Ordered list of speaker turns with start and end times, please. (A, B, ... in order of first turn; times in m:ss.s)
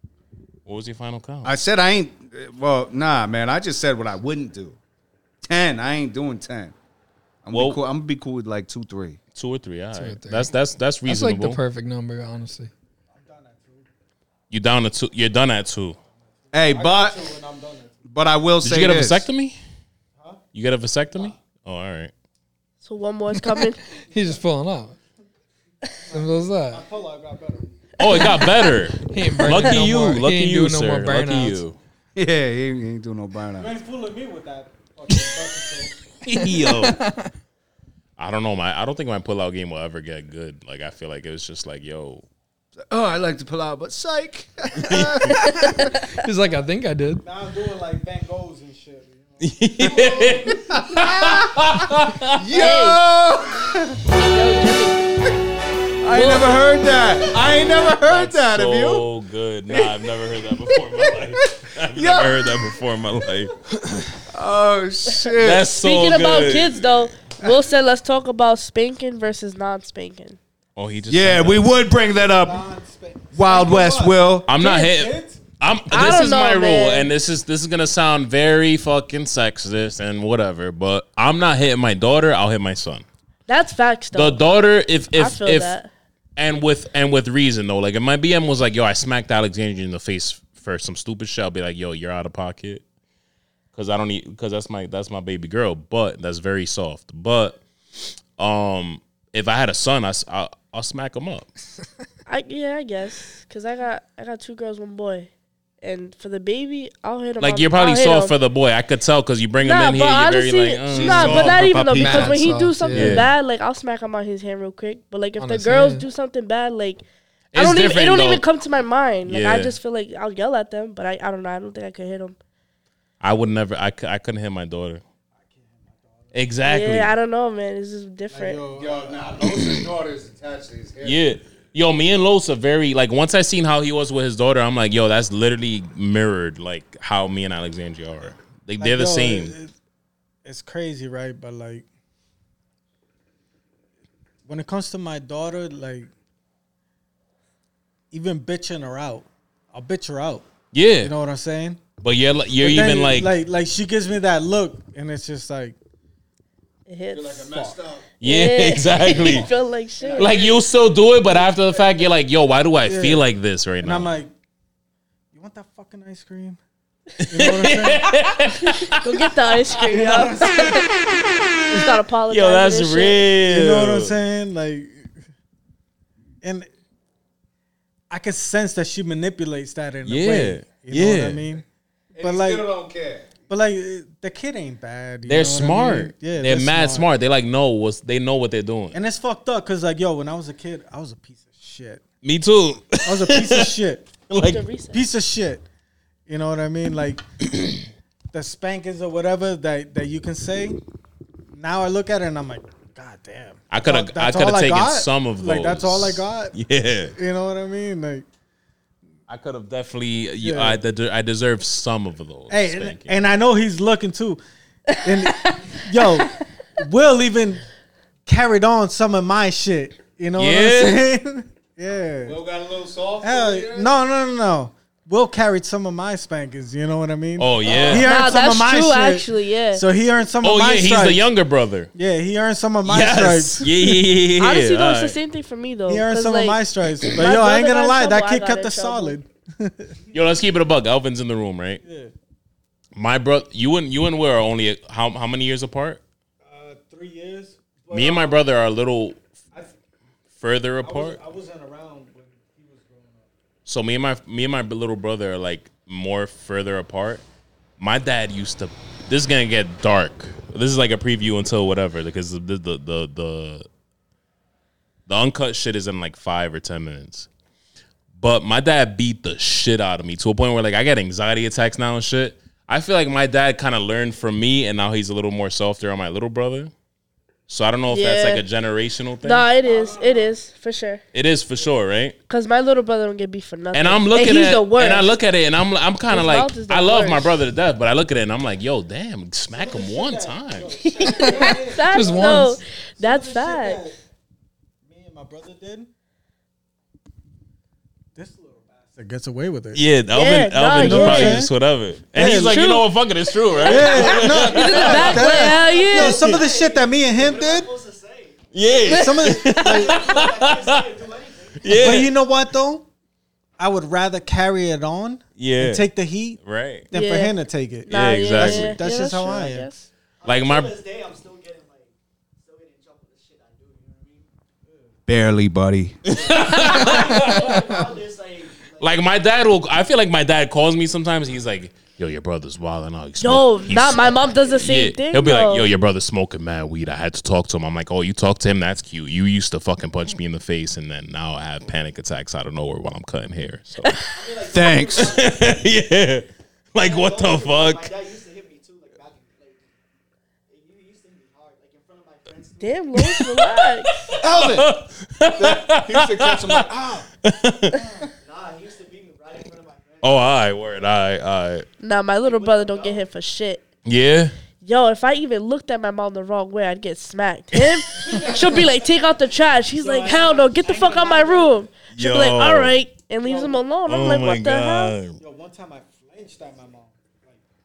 0:00.6-0:01.6 A
0:01.4-0:04.8 B
0:05.5-0:06.7 B
0:07.4-0:09.2 B
0:07.5-0:07.8 A
0:09.3-0:11.6 A
0:09.9-0:10.5 C
0:11.0-0:12.7 C
0:13.1-0:13.9 D
0:14.5-0:16.0 A
0:16.5-0:18.0 D
0:16.5-0:17.3 B
0:18.0-0:19.3 B
0:18.6-0:19.6 A
0:20.2-0:20.4 D
0:20.5-0:22.1 A
0:22.8-0:23.8 E
0:23.5-0:25.0 C
0:26.1-0:26.8 C
0:26.1-0:27.7 D
0:28.0-0:31.8 A
0:29.0-0:31.6 C
0:32.1-0:33.7 B
0:33.6-0:36.0 D
0:36.2-0:37.0 A
0:36.3-0:37.3 C
0:38.2-0:42.2 A
0:42.9-0:45.9 B
0:44.8-0:45.4 A
0:45.3-0:45.9 E
0:45.7-0:47.2 C
0:47.2-0:50.6 D
0:49.4-0:52.4 A
0:49.8-0:51.7 B
0:52.3-0:54.0 B
0:52.6-0:53.0 E
0:54.2-0:55.3 E
0:56.0-0:59.0 B
0:56.1-0:56.6 E
0:58.0-1:03.6 A
1:00.7-1:01.2 B
1:01.8-1:02.8 B
1:04.3-1:05.7 B
1:05.4-1:06.8 A
1:05.7-1:10.4 E
1:10.8-1:11.7 A
1:11.1-1:12.6 B
1:12.4-1:15.4 D
1:13.3-1:14.5 B
1:14.5-1:23.0 A
1:15.9-1:17.1 E
1:23.5-1:24.4 E
1:24.1-1:25.8 A
1:25.1-1:25.9 E
1:26.4-1:32.8 A
1:33.7-1:37.6 A
1:38.4-1:41.5 A
1:42.3-1:45.3 E
1:45.8-1:48.3 E
1:47.4-1:52.4 A
1:49.6-1:57.0 E
1:50.9-1:52.2 B
1:51.9-1:53.3 C
1:52.9-1:53.3 A
1:55.4-1:56.0 C
1:57.5-1:58.4 A
1:57.6-2:02.4 E
1:59.3-1:59.8 A
2:03.2-2:05.0 A
2:05.4-2:06.3 D
2:06.3-2:07.1 A
2:06.7-2:08.6 E
2:08.3-2:09.4 D
2:08.7-2:11.2 B
2:11.0-2:19.5 A
2:18.8-2:19.7 D
2:20.4-2:21.9 D
2:24.4-2:26.1 D
2:28.1-2:30.4 D
2:30.7-2:31.1 A
2:31.0-2:31.8 D
2:32.0-2:33.3 A
2:32.6-2:35.8 D
2:36.9-2:37.7 E
2:37.1-2:38.0 B
2:38.2-2:39.5 A
2:38.2-2:40.4 E
2:40.0-2:40.6 D
2:40.2-2:44.1 A
2:42.9-2:43.2 D
2:43.8-2:44.3 D
2:45.3-2:46.6 D
2:47.2-2:49.7 A
2:47.3-2:48.1 D
2:48.6-2:50.9 E
2:49.8-2:50.8 D
2:51.7-2:53.3 E
2:52.3-2:54.1 A
2:53.4-2:55.1 D
2:56.4-2:56.7 D
2:58.1-3:01.6 D
3:00.0-3:01.4 A
3:02.1-3:03.3 B
3:02.2-3:02.7 D
3:03.5-3:07.1 D
3:05.3-3:09.0 A
3:08.9-3:12.0 D
3:12.2-3:13.7 A
3:13.0-3:14.1 D
3:14.3-3:14.6 A
3:14.4-3:15.1 E
3:14.9-3:15.6 D
3:16.3-3:17.2 D
3:18.3-3:20.8 D
3:21.5-3:26.6 D
3:23.7-3:27.1 A
3:27.2-3:28.3 D
3:29.3-3:33.2 A
3:30.4-3:30.8 D
3:32.5-3:34.4 D
3:34.9-3:37.6 D
3:35.2-3:36.3 E
3:38.3-3:42.4 D
3:40.4-3:41.0 A
3:42.2-3:43.9 B
3:43.2-3:51.2 D
3:47.4-3:48.1 A
3:47.6-3:48.0 B
3:47.9-3:49.8 E
3:50.4-3:51.9 A
3:51.9-3:54.0 D
3:52.8-3:55.2 A
3:54.4-3:56.6 E
3:55.9-4:00.0 D
3:57.1-3:59.2 E
4:00.1-4:01.8 A
4:01.8-4:02.1 D
4:02.9-4:06.0 A
4:06.4-4:08.4 D
4:07.9-4:09.2 A
4:10.4-4:11.2 A
4:10.8-4:13.3 D
4:13.6-4:17.2 A
4:17.8-4:23.6 A
4:25.1-4:27.3 A
4:28.2-4:36.7 A
4:37.5-4:39.5 A
4:37.9-4:38.4 E
4:39.2-4:41.0 E
4:39.6-4:40.3 D
4:41.1-4:42.2 A
4:42.3-4:45.1 E
4:43.7-4:50.7 A
4:46.1-4:47.3 E
4:49.5-4:54.0 D
4:50.8-4:53.8 E
4:51.2-4:52.6 C
4:54.8-4:55.9 D
4:58.1-4:59.8 D
4:59.7-5:05.2 A
5:00.1-5:01.5 E
5:00.8-5:01.5 D
5:02.1-5:02.6 D
5:02.2-5:02.9 E
5:03.5-5:11.8 F
5:03.6-5:07.7 D
5:03.8-5:06.4 E
5:08.5-5:10.8 A
5:08.9-5:09.4 E
5:08.9-5:10.2 D
5:11.6-5:12.1 A
5:11.7-5:12.8 D
5:13.6-5:19.7 D
5:15.4-5:15.8 A
5:16.4-5:16.9 A
5:16.9-5:17.3 E
5:17.9-5:19.8 E
5:17.9-5:18.8 A
5:20.2-5:24.3 F
5:20.2-5:20.7 A
5:25.1-5:26.0 B
5:26.1-5:27.4 A
5:26.1-5:29.0 F
5:28.8-5:44.0 A
5:33.2-5:35.7 E
5:44.1-5:45.8 F
5:44.4-5:45.2 B
5:45.0-5:47.9 A
5:46.8-5:49.8 F
5:50.5-5:52.9 F
5:52.6-5:54.0 E
5:53.0-5:56.6 A
5:54.2-5:54.7 B
5:55.3-5:57.1 B
5:57.2-5:57.8 A
5:58.2-6:00.9 F
6:00.0-6:01.6 A
6:01.8-6:03.6 E
6:02.2-6:03.1 F
6:03.9-6:04.3 A
6:04.6-6:14.9 E
6:07.5-6:07.8 A
6:08.0-6:08.7 F
6:09.8-6:11.6 D
6:11.9-6:12.7 A
6:13.2-6:13.6 D
6:13.9-6:15.2 A
6:15.2-6:17.4 D